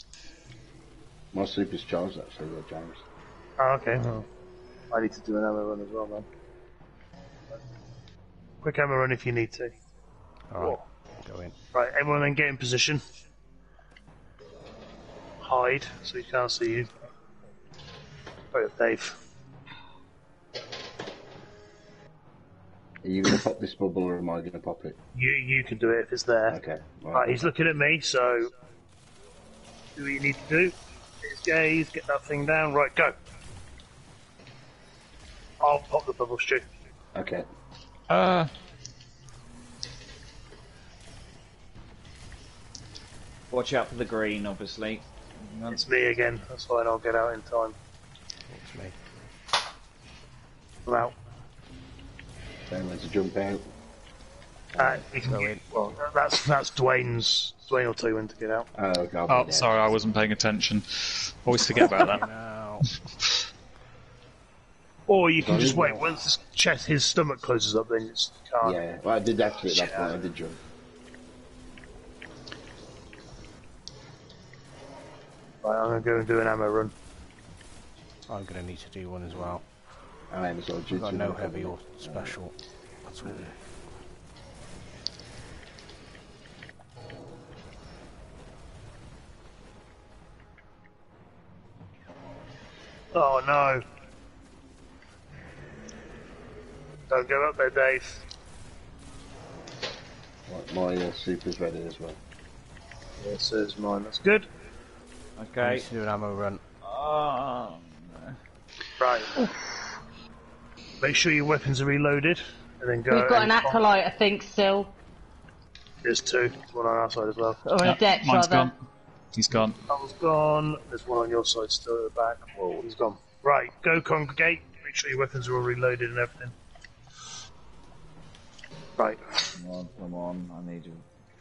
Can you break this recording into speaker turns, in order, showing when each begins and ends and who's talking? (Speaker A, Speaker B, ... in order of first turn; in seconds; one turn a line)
Speaker A: 1.3-3.0
Speaker B: 3.6-4.3
Speaker B: 4.9-6.3
Speaker B: 8.6-9.8
Speaker C: 10.5-11.5
Speaker B: 10.6-10.8
Speaker B: 11.7-13.0
Speaker B: 15.4-16.9
Speaker B: 18.5-19.2
Speaker A: 23.0-25.0
Speaker B: 25.1-26.6
Speaker A: 26.5-27.4
Speaker B: 27.1-28.5
Speaker B: 30.0-33.2
Speaker B: 35.6-36.7
Speaker A: 37.1-37.5
Speaker D: 38.1-38.5
Speaker E: 43.5-45.8
Speaker B: 45.7-47.8
Speaker C: 48.5-49.0
Speaker B: 50.9-51.1
Speaker A: 52.7-53.7
Speaker A: 54.8-55.0
Speaker B: 54.8-58.7
Speaker C: 55.3-55.6
Speaker A: 58.7-59.9
Speaker D: 59.3-62.3
Speaker C: 61.7-62.9
Speaker B: 65.1-68.8
Speaker A: 65.4-66.0
Speaker A: 68.6-70.6
Speaker B: 69.7-70.2
Speaker B: 75.6-76.9
Speaker C: 78.3-79.6
Speaker A: 80.3-82.3
Speaker C: 80.9-82.5
Speaker C: 83.0-83.5
Speaker B: 93.1-93.8
Speaker B: 97.1-98.2
Speaker A: 100.5-102.2
Speaker B: 103.2-104.5
Speaker E: 105.4-105.9
Speaker C: 105.6-106.6
Speaker E: 106.8-108.4
Speaker B: 109.0-109.3
Speaker B: 111.0-113.8
Speaker F: 113.1-114.9
Speaker B: 116.0-117.6
Speaker F: 117.7-118.7
Speaker D: 117.8-118.8
Speaker D: 119.3-119.8
Speaker B: 119.9-126.5
Speaker E: 129.6-131.0